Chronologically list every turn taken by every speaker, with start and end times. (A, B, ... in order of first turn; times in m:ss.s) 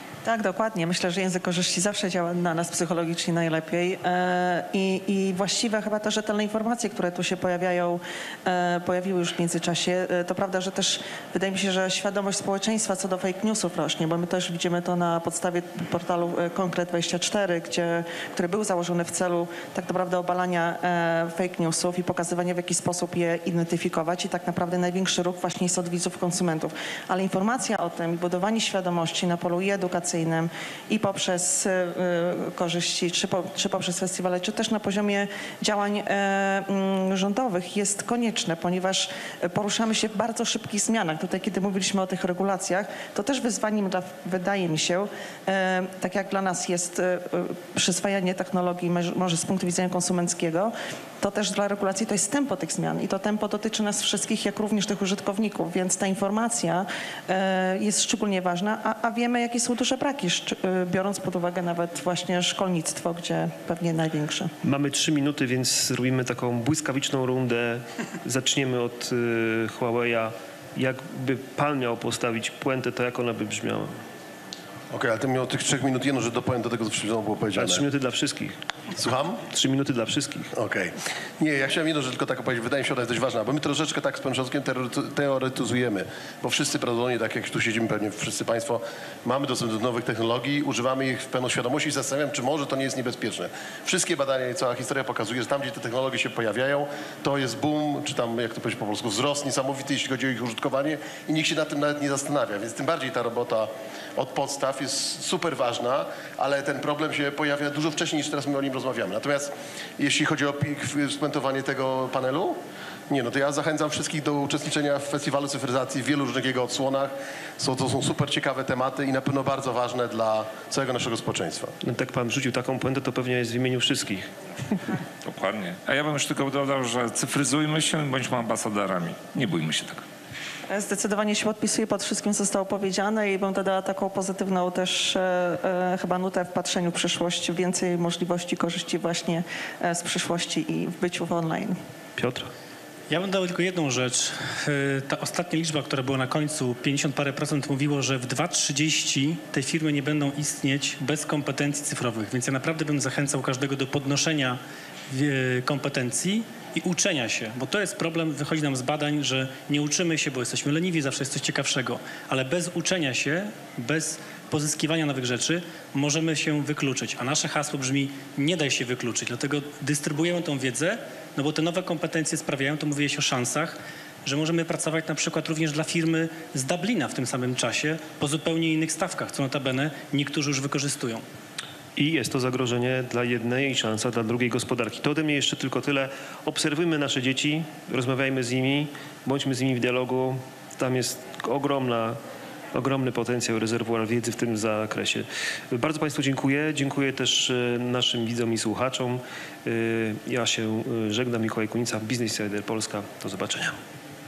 0:00.2-1:04.5 A
1:04.6-1:14.0 B
1:14.9-1:17.8 C
1:17.6-1:18.6 B
1:18.9-1:19.4 C
1:19.5-1:20.5 B
1:20.5-1:52.6 C
1:53.1-2:01.7 C
2:01.8-2:04.3 B
2:05.2-2:10.0 D
2:10.7-2:21.8 A
2:22.2-2:22.5 B
2:23.1-3:01.2 E
3:02.0-3:12.2 B
3:12.7-3:23.8 B